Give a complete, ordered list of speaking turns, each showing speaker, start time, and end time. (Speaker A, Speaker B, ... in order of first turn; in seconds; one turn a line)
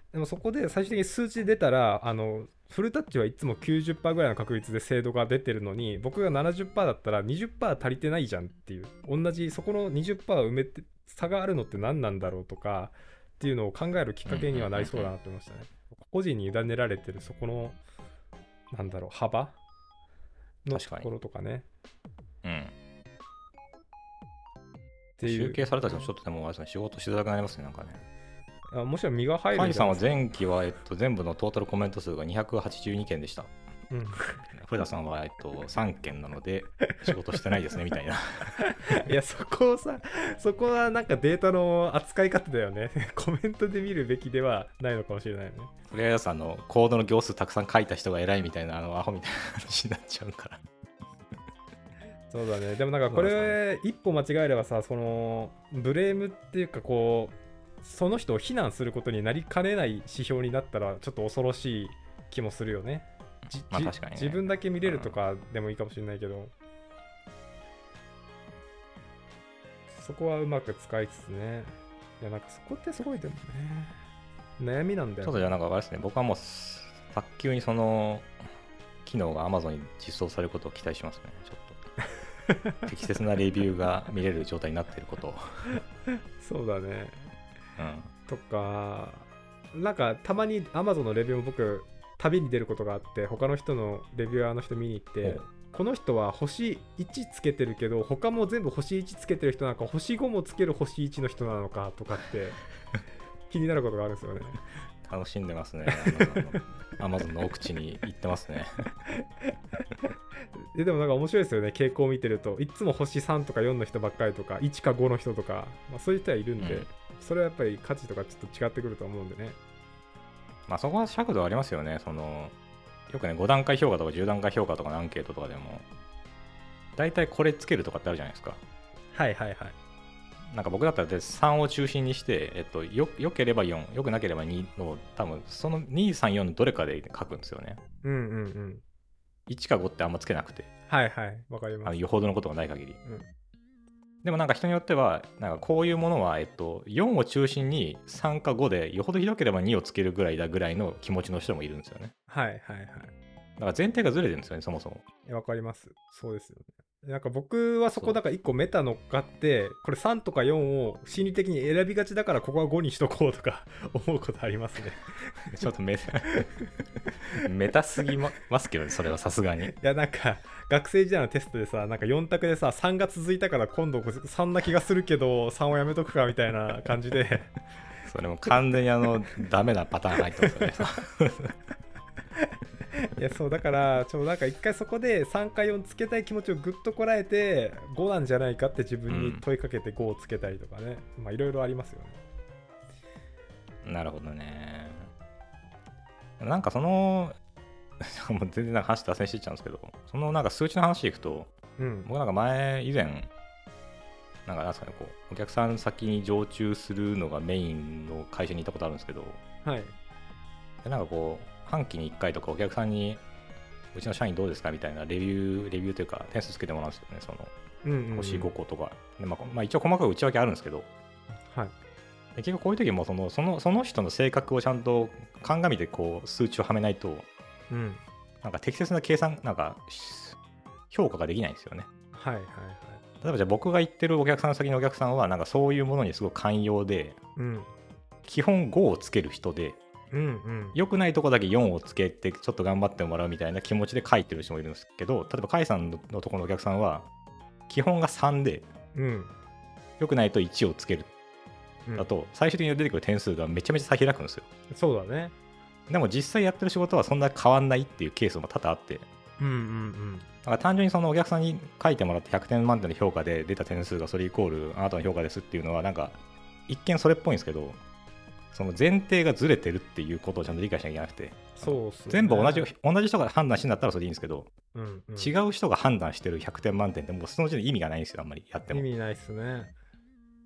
Speaker A: 0.1-17.8
Speaker B: 14.3-15.1
Speaker A: 18.7-19.6
Speaker A: 20.6-21.7
Speaker B: 20.7-21.1
Speaker B: 22.4-22.7
Speaker A: 25.2-26.1
Speaker B: 25.2-28.0
Speaker A: 28.7-30.1
Speaker B: 29.5-33.5
Speaker A: 33.9-34.4
Speaker B: 34.5-38.6
Speaker A: 38.6-45.7
Speaker B: 45.9-50.6
Speaker A: 52.3-66.5
Speaker B: 53.1-53.6
Speaker B: 63.7-65.2
Speaker A: 69.9-74.0
Speaker A: 74.6-75.5
Speaker B: 75.2-78.3
Speaker B: 79.0-81.8
Speaker A: 82.5-82.8
Speaker B: 82.8-85.8
Speaker A: 86.4-87.3
Speaker B: 87.8-88.1
Speaker A: 88.3-102.6
Speaker A: 103.5-104.6
Speaker B: 105.0-108.9
Speaker A: 106.0-106.4
Speaker A: 109.1-109.5
Speaker A: 110.6-119.6
Speaker B: 116.6-116.9
Speaker B: 120.7-122.5
Speaker B: 123.1-125.9
Speaker B: 127.0-128.6
Speaker A: 129.1-129.8
Speaker B: 130.5-137.8
Speaker A: 138.0-138.8
Speaker B: 139.5-140.7
Speaker A: 140.9-142.0
Speaker B: 141.8-143.0
Speaker B: 144.2-152.1
Speaker A: 152.3-153.1
Speaker B: 153.6-155.1
Speaker A: 155.3-165.6
Speaker B: 165.5-166.5
Speaker A: 166.3-166.5
Speaker B: 167.3-169.8
Speaker A: 169.8-177.5
Speaker B: 178.0-181.6
Speaker A: 180.4-180.7
Speaker A: 182.4-192.2
Speaker B: 189.1-189.4
Speaker B: 193.8-195.1
Speaker B: 196.4-197.4
Speaker B: 198.0-201.5
Speaker A: 201.8-202.1
Speaker B: 202.1-203.3
Speaker B: 204.5-209.4
Speaker A: 209.6-210.0
Speaker B: 210.8-213.2
Speaker B: 213.9-217.5
Speaker A: 217.8-218.5
Speaker B: 218.1-220.9
Speaker A: 221.5-221.7
Speaker B: 222.4-227.3
Speaker A: 227.7-228.0
Speaker B: 228.4-230.4
Speaker B: 230.9-231.9
Speaker A: 232.1-233.0
Speaker B: 233.2-237.2
Speaker A: 237.4-237.7
Speaker B: 238.2-239.8
Speaker A: 240.1-240.8
Speaker B: 240.8-247.1
Speaker B: 247.7-248.7
Speaker A: 248.9-249.3
Speaker B: 250.0-251.1
Speaker B: 252.0-254.5
Speaker A: 254.7-255.3
Speaker B: 255.9-259.1
Speaker A: 259.4-260.3
Speaker B: 260.4-267.8
Speaker B: 268.5-274.5
Speaker A: 271.6-272.7
Speaker A: 274.7-275.3
Speaker B: 275.2-278.9
Speaker A: 278.7-279.7